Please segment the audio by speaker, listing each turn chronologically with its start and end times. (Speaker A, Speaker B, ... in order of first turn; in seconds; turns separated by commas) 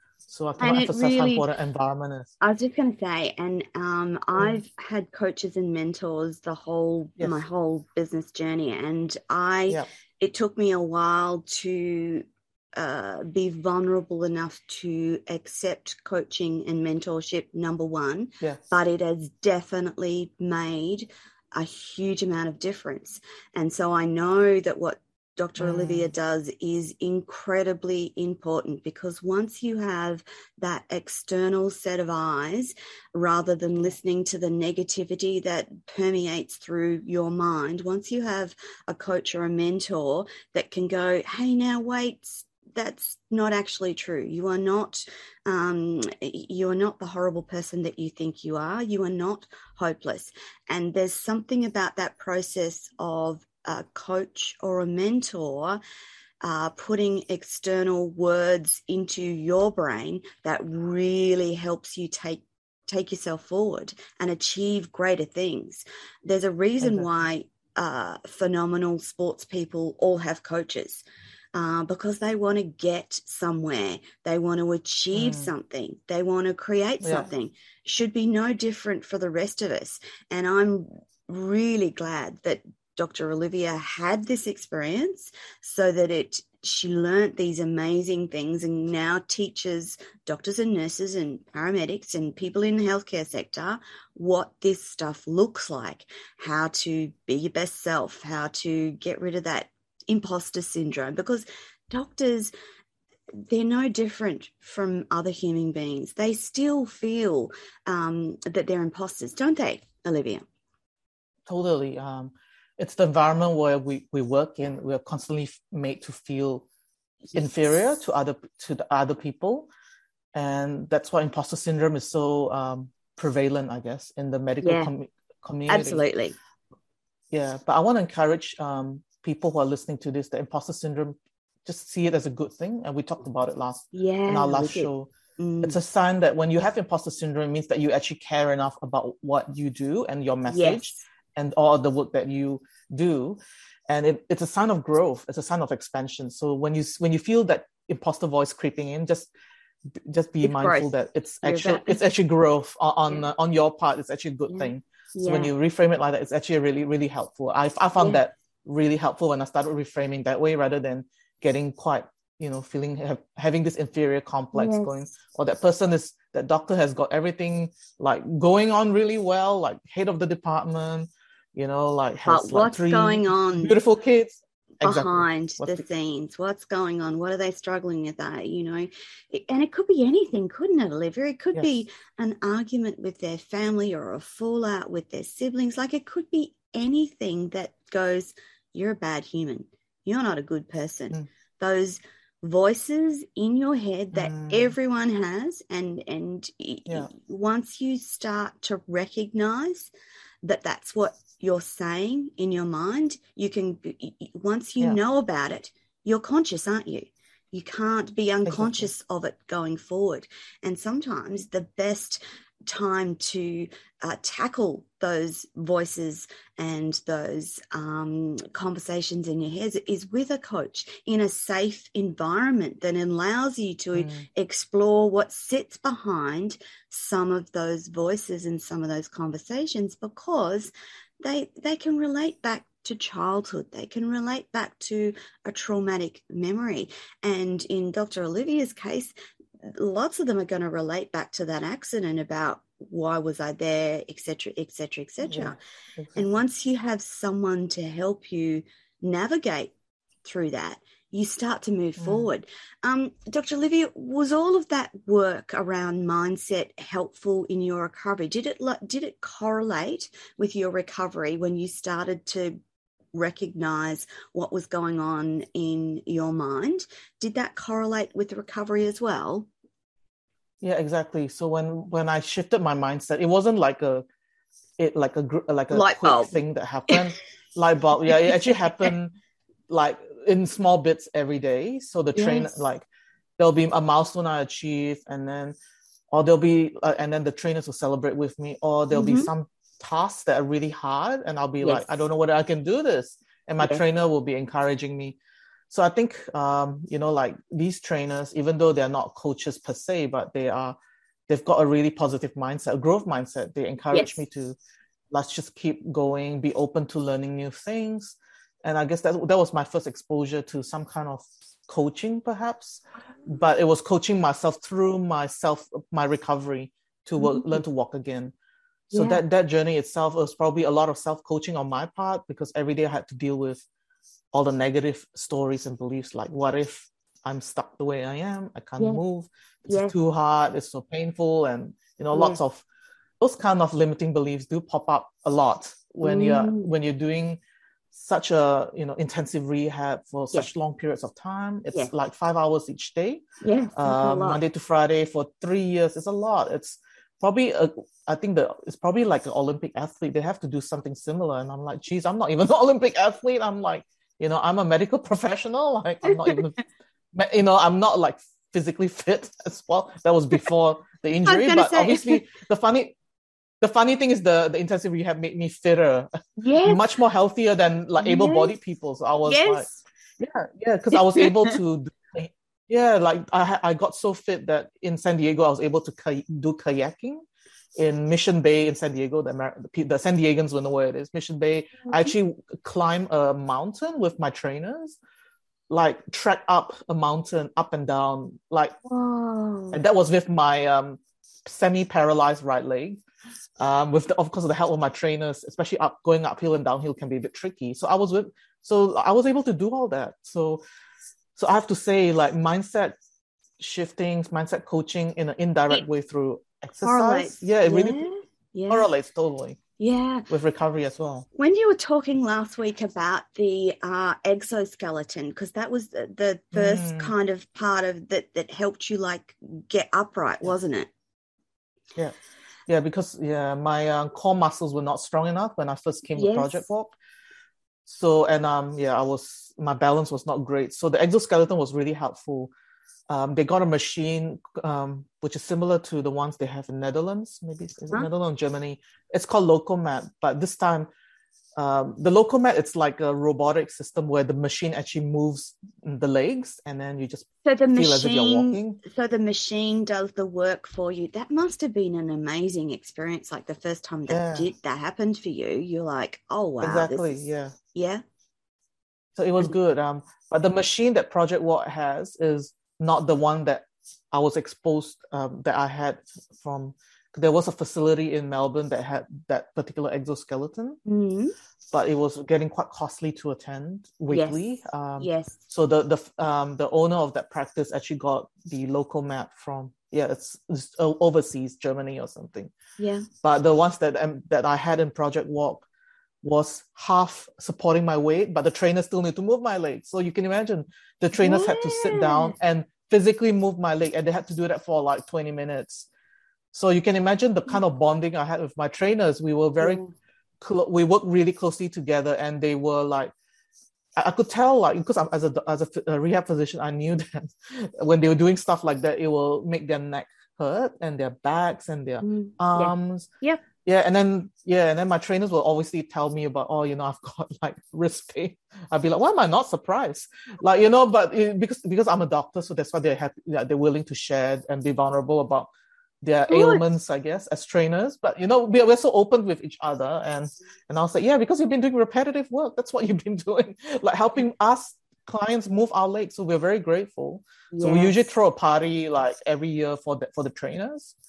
Speaker A: 0.3-2.3, Speaker B: 0.6-1.4, Speaker B: 2.4-12.2, Speaker B: 12.8-55.8, Speaker A: 25.6-26.1, Speaker B: 56.4-102.5, Speaker A: 66.8-67.1, Speaker A: 75.1-75.5, Speaker A: 77.0-77.3, Speaker B: 103.4-110.4, Speaker A: 111.5-116.6, Speaker A: 117.3-119.7, Speaker A: 120.3-126.0, Speaker B: 124.6-124.9, Speaker B: 125.7-126.3, Speaker A: 127.3-135.1, Speaker B: 133.9-135.8, Speaker A: 135.6-149.3, Speaker B: 140.5-141.1, Speaker A: 149.9-175.8, Speaker B: 150.4-150.9, Speaker B: 151.4-152.0, Speaker B: 154.5-155.5, Speaker B: 158.0-158.2, Speaker B: 164.5-165.1, Speaker B: 172.3-173.7, Speaker B: 174.8-199.9, Speaker A: 194.1-194.7, Speaker B: 200.4-245.6, Speaker A: 208.4-208.9, Speaker A: 223.9-224.3, Speaker A: 245.2-246.3, Speaker B: 246.1-249.7, Speaker B: 250.2-262.6, Speaker A: 252.0-252.3, Speaker B: 263.1-269.5, Speaker A: 270.6-274.0, Speaker A: 274.8-279.1, Speaker B: 275.7-276.3, Speaker B: 278.3-278.9, Speaker A: 279.7-282.9, Speaker B: 282.1-282.6, Speaker A: 283.4-285.6, Speaker A: 286.1-295.2, Speaker B: 288.9-289.3, Speaker B: 291.6-291.9, Speaker A: 295.7-300.8, Speaker A: 301.3-304.6, Speaker B: 303.9-304.2, Speaker A: 305.1-318.3, Speaker B: 317.2-317.6, Speaker A: 318.9-323.6, Speaker B: 318.9-319.2, Speaker A: 324.3-332.6, Speaker B: 329.7-329.9, Speaker B: 332.1-332.4, Speaker A: 333.2-337.4, Speaker B: 336.0-336.7, Speaker A: 337.9-343.2, Speaker B: 343.4-344.4, Speaker A: 343.8-356.6, Speaker B: 356.0-356.4, Speaker A: 357.1-362.9, Speaker B: 361.2-362.2, Speaker A: 363.6-369.7, Speaker B: 366.4-366.8, Speaker B: 368.0-368.5, Speaker B: 369.2-369.8, Speaker A: 370.2-377.2, Speaker B: 370.9-371.6, Speaker A: 377.8-385.0, Speaker B: 381.8-382.1, Speaker A: 385.7-388.7, Speaker B: 388.8-389.8, Speaker A: 389.7-393.0, Speaker A: 393.6-400.6, Speaker A: 401.4-403.0, Speaker A: 403.6-408.0, Speaker B: 406.8-408.9, Speaker A: 408.7-409.6, Speaker B: 409.8-410.3, Speaker A: 410.3-411.3, Speaker B: 411.4-420.9, Speaker A: 416.5-417.1, Speaker A: 422.7-426.9, Speaker B: 426.1-426.7, Speaker A: 427.8-432.5, Speaker A: 433.1-440.9, Speaker A: 441.6-448.8, Speaker B: 447.4-458.0, Speaker A: 454.1-454.5, Speaker A: 456.6-457.5, Speaker A: 459.1-470.8, Speaker B: 470.9-471.3, Speaker A: 471.7-482.5, Speaker B: 474.1-475.4, Speaker B: 482.8-483.1, Speaker A: 483.2-485.6, Speaker A: 486.2-495.9, Speaker B: 491.2-492.3, Speaker A: 496.5-499.8, Speaker B: 499.6-499.9, Speaker A: 500.4-503.1, Speaker A: 503.9-513.1, Speaker B: 512.0-513.4, Speaker A: 513.6-525.5, Speaker A: 526.0-541.0, Speaker B: 526.3-526.6, Speaker B: 537.5-538.0